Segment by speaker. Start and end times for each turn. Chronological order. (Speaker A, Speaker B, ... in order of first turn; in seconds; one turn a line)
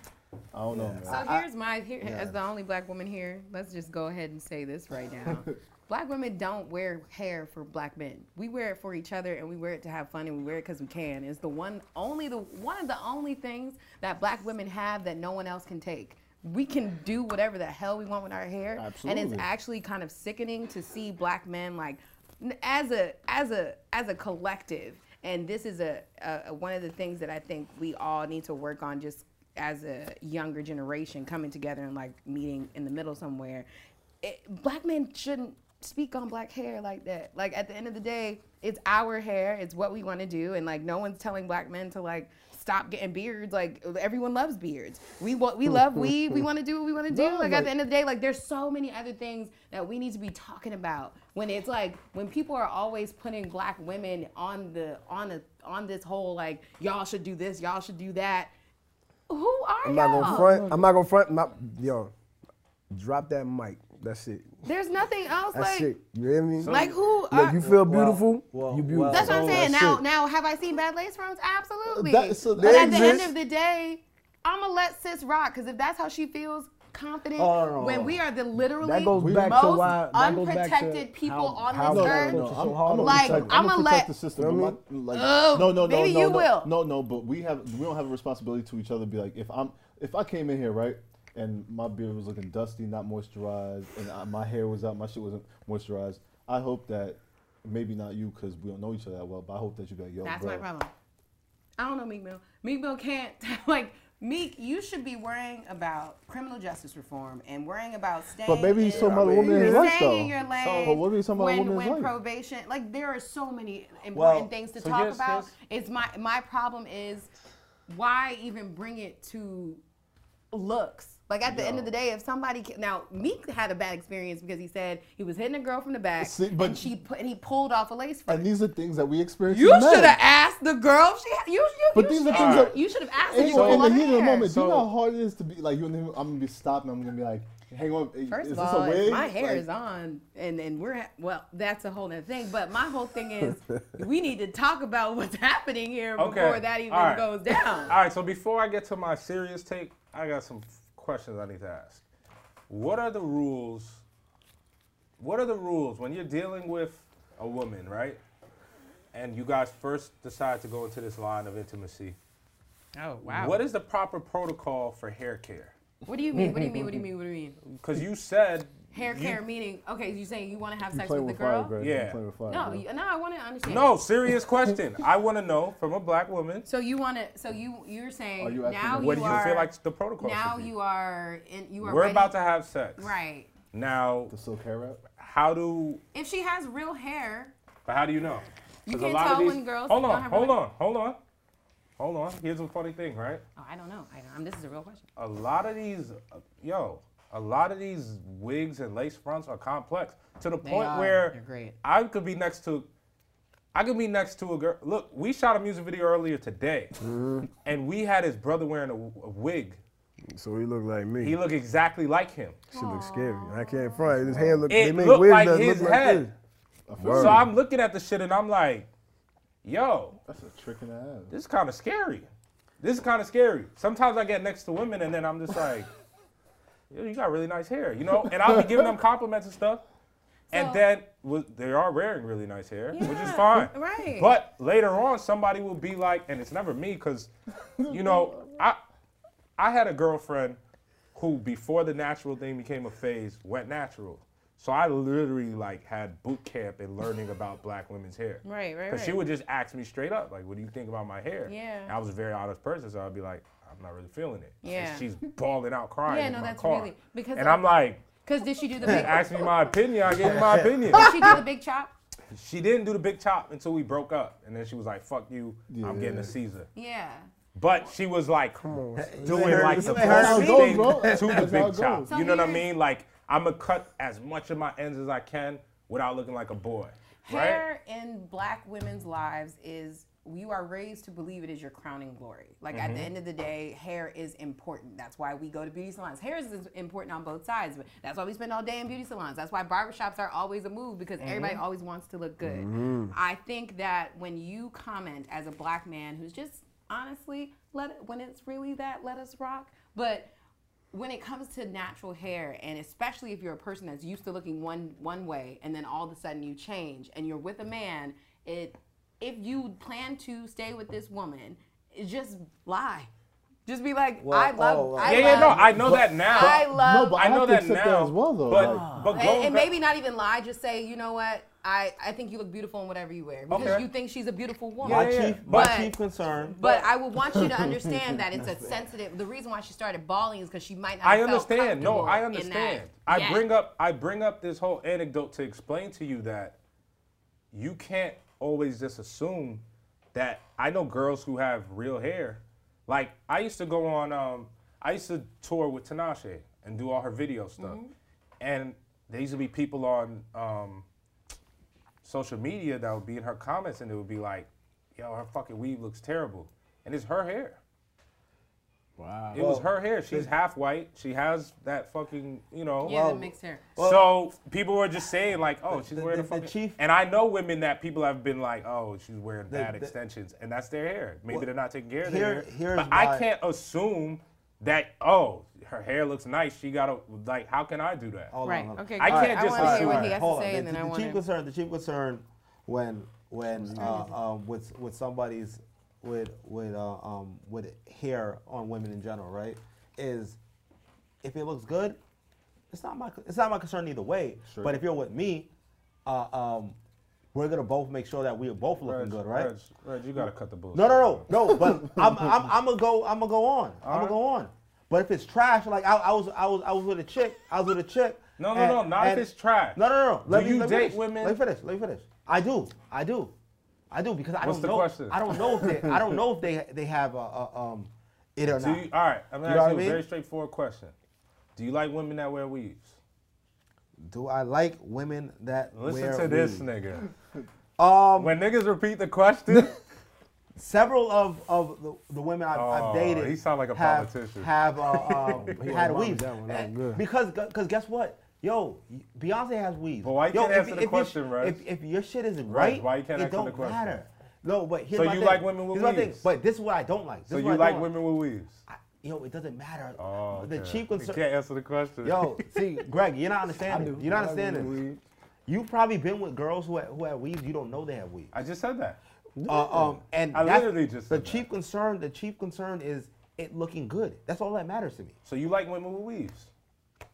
Speaker A: 0.5-1.3
Speaker B: 0.7-1.5
Speaker C: 1.1-33.7
Speaker B: 2.0-2.4
Speaker A: 5.2-5.6
Speaker A: 18.8-19.5
Speaker C: 34.2-58.5
Speaker A: 47.1-47.7
Speaker C: 59.3-60.7
Speaker D: 59.8-62.1
Speaker D: 62.9-64.6
Speaker C: 64.6-65.9
Speaker D: 65.5-70.0
Speaker E: 66.6-67.0
Speaker C: 66.6-67.7
Speaker B: 67.6-69.7
Speaker C: 69.1-84.1
Speaker A: 71.9-73.3
Speaker D: 72.5-73.3
Speaker B: 77.4-78.2
Speaker D: 78.8-83.6
Speaker A: 79.1-79.9
Speaker A: 81.8-100.6
Speaker D: 84.4-84.8
Speaker C: 85.1-86.7
Speaker C: 100.2-100.9
Speaker C: 101.8-117.3
Speaker A: 108.4-112.1
Speaker E: 108.9-109.9
Speaker E: 110.5-111.0
Speaker B: 114.1-114.5
Speaker E: 114.8-115.5
Speaker C: 117.9-119.8
Speaker C: 120.5-128.5
Speaker B: 121.5-121.9
Speaker A: 126.2-126.9
Speaker A: 128.3-130.2
Speaker C: 129.5-134.5
Speaker A: 131.9-139.6
Speaker E: 132.3-132.7
Speaker E: 133.4-134.9
Speaker C: 138.3-147.9
Speaker E: 146.2-152.0
Speaker E: 152.7-154.0
Speaker E: 155.2-158.2
Speaker E: 159.1-162.2
Speaker C: 162.9-163.6
Speaker E: 163.2-165.7
Speaker C: 166.1-167.6
Speaker E: 167.6-169.4
Speaker C: 168.9-171.7
Speaker A: 170.9-172.8
Speaker E: 171.8-172.2
Speaker C: 172.5-173.9
Speaker E: 173.6-176.7
Speaker C: 176.6-182.4
Speaker A: 178.4-179.5
Speaker E: 178.9-180.7
Speaker E: 181.8-183.2
Speaker C: 183.0-183.5
Speaker E: 183.7-184.3
Speaker A: 184.3-185.0
Speaker E: 185.2-186.0
Speaker C: 186.1-187.5
Speaker E: 187.9-191.2
Speaker C: 188.9-190.6
Speaker E: 192.0-193.4
Speaker C: 193.6-195.1
Speaker E: 195.2-202.9
Speaker C: 200.6-201.8
Speaker E: 203.7-206.9
Speaker D: 207.0-207.5
Speaker E: 207.6-209.8
Speaker D: 210.3-211.4
Speaker E: 211.2-212.6
Speaker C: 212.7-214.1
Speaker D: 212.7-216.3
Speaker A: 214.0-214.7
Speaker E: 214.7-216.3
Speaker A: 216.9-217.5
Speaker D: 217.0-217.4
Speaker E: 217.0-218.9
Speaker E: 219.6-220.2
Speaker A: 220.2-221.3
Speaker E: 221.3-225.9
Speaker E: 226.9-229.8
Speaker A: 228.4-228.8
Speaker C: 230.5-230.8
Speaker E: 230.5-237.3
Speaker C: 232.9-234.3
Speaker A: 237.8-238.6
Speaker E: 237.9-238.8
Speaker E: 239.6-240.6
Speaker E: 241.1-258.0
Speaker C: 248.4-249.2
Speaker C: 251.5-251.9
Speaker C: 254.6-255.1
Speaker C: 256.1-257.6
Speaker C: 258.2-259.3
Speaker E: 258.8-261.4
Speaker B: 258.9-259.2
Speaker B: 260.1-261.4
Speaker C: 260.9-261.9
Speaker E: 262.3-266.7
Speaker A: 265.7-266.3
Speaker C: 266.7-267.3
Speaker E: 267.6-277.6
Speaker D: 268.6-270.2
Speaker B: 269.0-271.5
Speaker A: 269.9-272.1
Speaker C: 272.1-272.7
Speaker C: 277.2-300.3
Speaker E: 282.7-283.1
Speaker E: 291.2-291.6
Speaker D: 292.4-293.1
Speaker C: 300.9-313.1
Speaker C: 313.6-315.7
Speaker B: 314.2-316.2
Speaker E: 315.0-319.7
Speaker C: 316.2-317.2
Speaker A: 316.4-318.9
Speaker B: 318.5-319.3
Speaker C: 319.1-333.4
Speaker E: 323.5-323.9
Speaker E: 324.8-325.8
Speaker B: 324.8-326.9
Speaker E: 331.0-336.6
Speaker E: 337.5-339.6
Speaker E: 340.1-347.8
Speaker C: 347.6-347.9
Speaker E: 348.4-350.9
Speaker E: 352.0-357.6
Speaker D: 359.0-359.5
Speaker E: 359.3-362.9
Speaker B: 359.3-360.3
Speaker C: 362.8-363.6
Speaker B: 362.8-364.1
Speaker E: 363.8-378.3
Speaker B: 365.7-366.8
Speaker B: 369.5-369.9
Speaker B: 372.0-373.2
Speaker B: 378.3-390.4
Speaker C: 378.4-381.2
Speaker E: 379.0-380.2
Speaker C: 383.8-384.2
Speaker B: 391.2-392.0
Speaker B: 392.7-395.5
Speaker A: 394.5-394.8
Speaker B: 396.1-396.8
Speaker B: 397.3-399.5
Speaker E: 398.8-401.3
Speaker B: 400.7-413.3
Speaker A: 401.4-402.2
Speaker E: 403.8-404.1
Speaker E: 408.4-411.4
Speaker B: 413.9-418.9
Speaker E: 414.4-415.2
Speaker A: 415.6-415.9
Speaker E: 418.5-420.9
Speaker B: 419.4-420.0
Speaker E: 421.6-422.9
Speaker B: 424.0-426.6
Speaker E: 425.7-427.1
Speaker B: 427.8-428.3
Speaker E: 428.1-429.8
Speaker B: 430.6-447.9
Speaker E: 432.5-435.5
Speaker D: 435.4-437.0
Speaker E: 440.0-441.6
Speaker E: 442.4-444.0
Speaker E: 444.9-446.3
Speaker E: 447.3-448.6
Speaker B: 448.7-451.2
Speaker E: 450.0-452.4
Speaker B: 452.0-454.8
Speaker D: 453.7-455.0
Speaker B: 455.5-458.3
Speaker E: 458.3-459.0
Speaker D: 459.4-459.9
Speaker B: 459.4-465.1
Speaker E: 460.3-461.4
Speaker E: 465.2-466.5